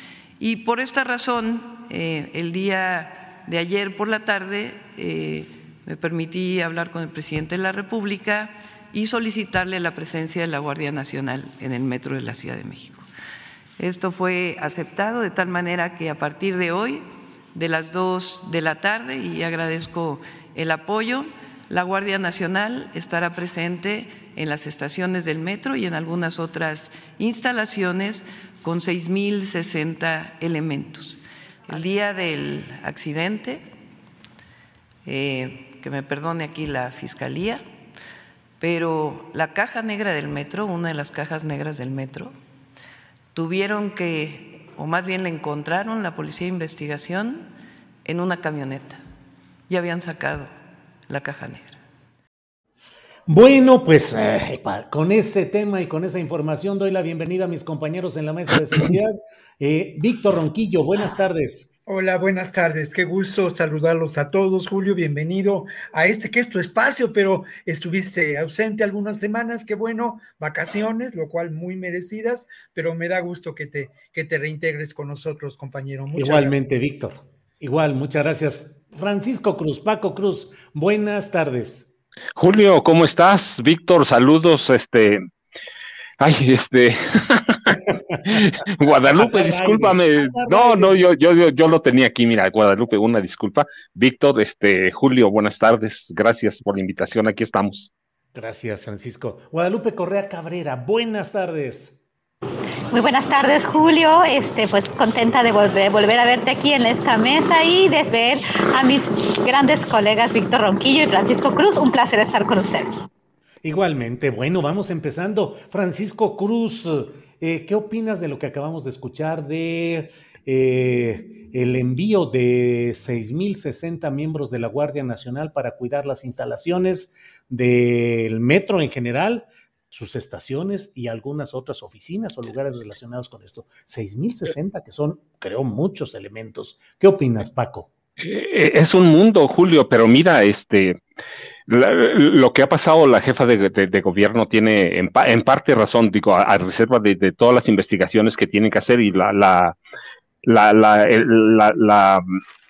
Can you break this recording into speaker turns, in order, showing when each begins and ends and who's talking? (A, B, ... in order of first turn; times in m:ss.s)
0:00.4-0:13.1 A
0:13.8-0:33.7 A
0:35.0-0:37.6 A
0:38.6-0:42.4 A
0:43.3-0:47.5 A
0:48.0-0:49.0 A
0:49.7-0:50.5 A
0:51.1-0:51.8 A
0:53.3-1:01.7 B
1:01.9-1:16.5 C
1:16.2-1:21.9 B
1:22.4-1:25.2 D
1:26.2-1:37.9 D
1:28.1-1:28.4 B
1:29.0-1:31.0 B
1:38.3-1:42.0 B
1:42.9-1:52.9 E
1:53.6-2:17.9 B
2:18.2-2:21.0 D
2:21.7-2:29.8 D
2:30.4-2:32.2 D